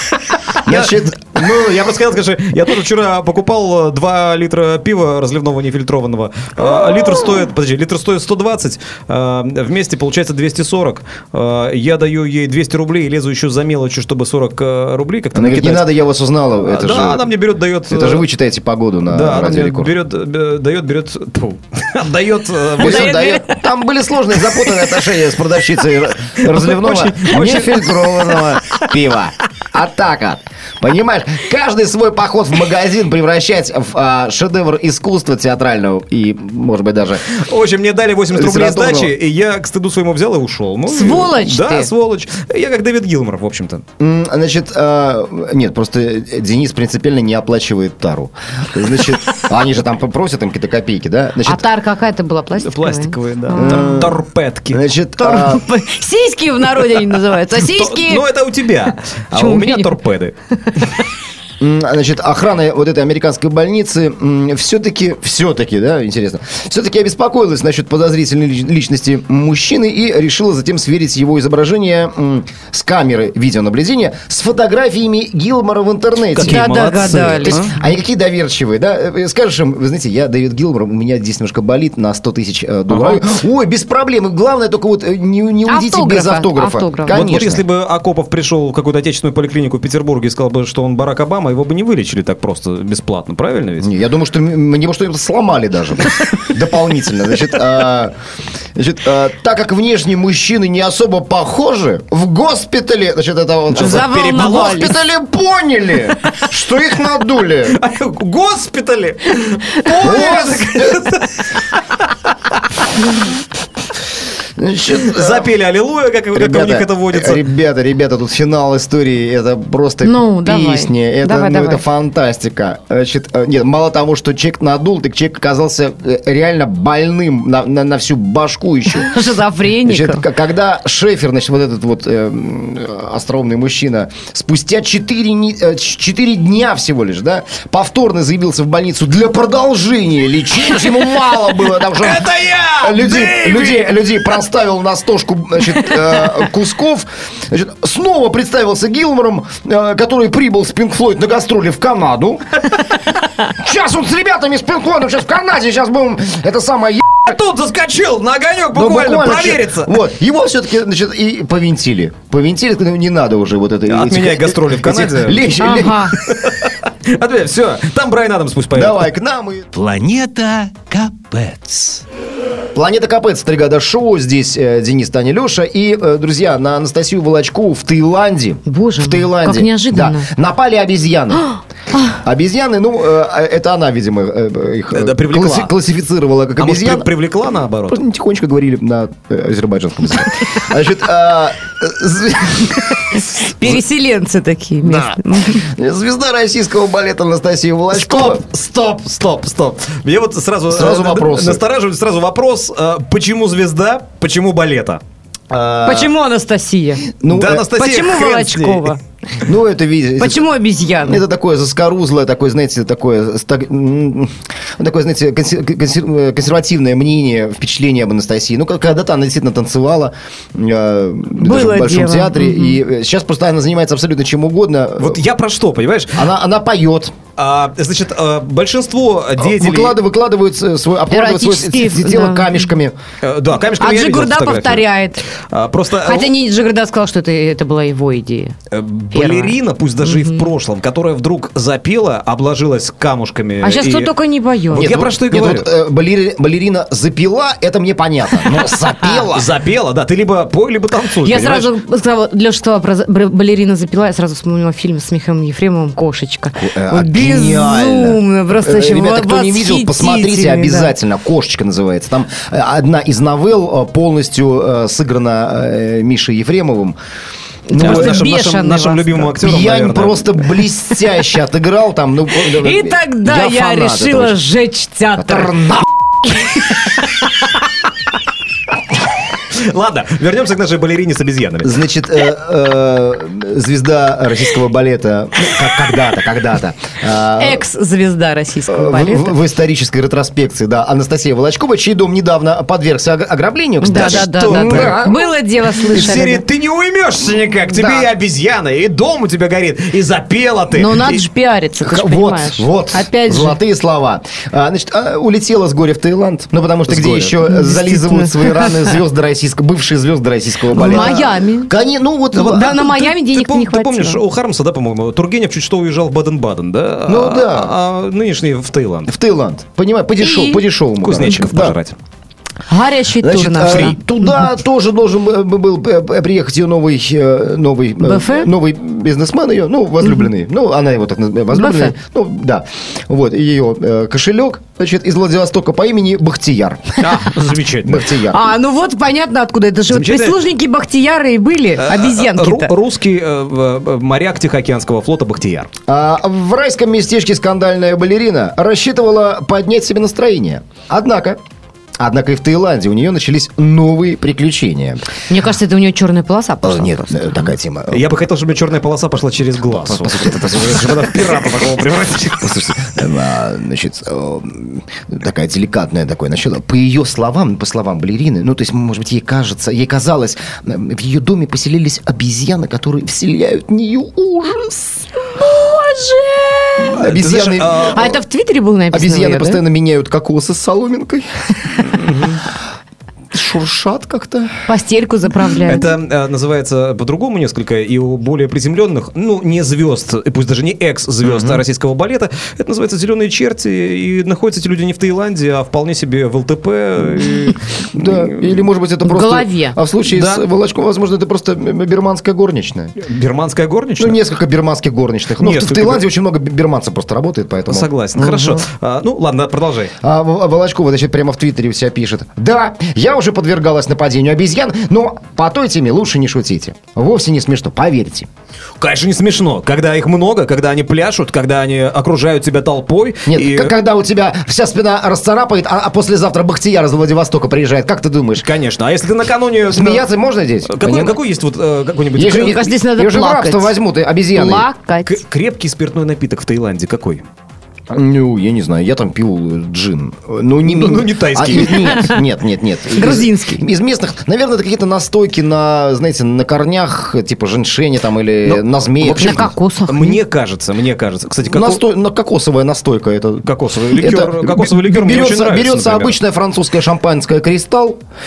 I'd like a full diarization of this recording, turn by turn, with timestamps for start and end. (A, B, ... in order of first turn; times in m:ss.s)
0:00.6-0:15.9 A
0:00.6-0:01.5 B
0:15.3-0:19.9 B
0:16.6-0:18.2 A
0:19.1-0:23.3 A
0:22.8-0:37.2 B
0:22.8-0:23.6 C
0:26.4-0:28.8 A
0:37.3-0:43.8 A
0:38.3-0:39.1 B
0:40.8-0:41.9 C
0:44.0-0:51.6 B
0:51.4-0:54.1 C
0:52.6-0:54.8 A
0:53.5-0:55.6 B
0:55.2-0:58.3 C
0:57.6-1:00.3 A
0:59.3-1:00.0 C
1:01.6-1:16.6 B
1:16.3-1:17.8 A
1:16.4-1:17.6 C
1:17.4-1:27.6 B
1:22.9-1:23.3 A
1:25.6-1:27.3 C
1:27.1-1:33.9 A
1:33.8-1:38.1 B
1:38.8-1:47.8 B
1:43.7-1:45.0 C
1:43.8-1:44.8 A
1:47.7-1:52.8 A
1:50.0-1:51.1 B
1:54.6-1:55.5 B
1:55.0-1:57.4 A
1:56.3-2:09.1 B
2:00.0-2:01.8 C
2:08.9-2:10.2 C
2:09.8-2:32.7 B
2:21.9-2:24.0 A
2:25.8-2:26.3 A
2:33.4-2:37.2 B
2:37.2-2:40.0 A
2:38.7-2:46.0 B
2:43.9-2:49.1 A
2:45.6-2:46.1 C
2:48.7-2:49.7 B
2:49.7-2:52.0 D
2:52.7-3:01.5 B
2:58.6-3:00.3 C
3:02.1-3:07.1 B
3:04.9-3:05.7 A
3:06.6-3:08.0 A
3:07.9-3:13.8 B
3:13.4-3:15.6 C
3:14.8-3:18.4 B
3:17.9-3:25.0 A
3:20.7-3:21.6 B
3:25.5-3:26.1 B
3:25.8-3:27.1 C
3:27.2-3:27.7 B
3:27.3-3:29.0 A
3:27.8-3:29.0 C
3:29.4-3:30.5 B
3:30.2-3:31.2 C
3:31.0-3:45.2 B
3:41.4-3:42.8 C
3:45.0-3:46.2 A
3:46.1-3:47.1 B
3:47.4-3:50.0 A
3:49.4-3:53.0 B
3:51.1-3:52.6 C
3:53.2-3:54.8 A
3:53.7-3:55.2 C
3:55.5-3:56.3 A
3:56.0-3:58.6 C
3:58.7-4:04.1 A
3:59.1-4:00.5 C
4:03.6-4:05.0 C
4:04.7-4:05.7 A
4:04.7-4:09.5 B
4:09.0-4:09.2 C
4:09.3-4:11.7 A
4:11.2-4:20.9 C
4:16.5-4:27.0 B
4:27.7-4:28.2 B
4:27.7-4:29.3 C
4:27.8-4:30.4 A
4:29.4-4:34.4 B
4:32.4-4:35.6 C
4:35.2-4:35.9 B
4:39.4-4:41.8 A
4:41.6-4:47.6 B
4:47.4-4:49.4 C
4:48.7-4:55.3 B
4:53.8-4:56.4 C
4:53.9-4:55.0 A
4:55.9-5:01.2 A
4:57.7-4:58.1 B
5:00.7-5:03.6 C
5:01.8-5:12.7 B
5:06.8-5:07.3 A
5:07.4-5:09.0 C
5:10.7-5:11.7 C
5:10.8-5:11.3 A
5:12.3-5:14.2 C
5:12.4-5:19.1 A
5:17.0-5:17.7 B
5:19.1-5:21.8 B
5:20.2-5:20.6 C
5:21.0-5:22.0 A
5:22.7-5:24.4 C
5:23.2-5:37.3 B
5:23.6-5:24.0 A
5:28.0-5:28.5 C
5:31.5-5:31.9 C
5:37.0-5:38.1 A
5:37.8-5:38.4 B
5:38.2-5:42.7 C
5:39.9-5:40.4 A
5:41.8-5:45.7 A
5:45.9-5:51.4 B
5:52.0-5:55.1 B
5:55.3-5:57.5 C
5:56.6-5:58.1 B
5:57.9-6:02.7 A
5:59.6-6:01.7 B
6:02.4-6:15.0 B
6:15.4-6:17.0 C
6:16.8-6:18.2 B
6:17.0-6:18.0 A
6:17.9-6:19.6 C
6:18.9-6:21.9 B
6:21.8-6:22.4 A
6:23.3-6:24.5 B
6:24.7-6:25.9 C
6:25.6-6:38.6 A
6:31.2-6:31.6 B
6:37.9-6:43.0 B
6:39.0-6:39.8 C
6:40.0-6:40.4 A
6:43.0-6:44.2 A
6:44.0-6:48.6 B
6:45.4-6:46.0 A
6:47.7-6:49.9 A
6:50.0-6:58.3 B
6:58.8-7:03.7 A
7:03.3-7:08.5 B
7:08.4-7:10.1 A
7:09.7-7:11.2 B
7:10.7-7:12.7 A
7:12.1-7:14.7 B
7:12.4-7:13.7 C
7:14.3-7:15.2 C
7:15.0-7:17.2 A
7:17.9-7:29.5 B
7:20.6-7:22.1 A
7:21.8-7:22.2 C
7:22.9-7:23.6 C
7:28.4-7:31.8 A
7:29.0-7:30.2 C
7:31.4-7:38.0 B
7:33.4-7:36.2 A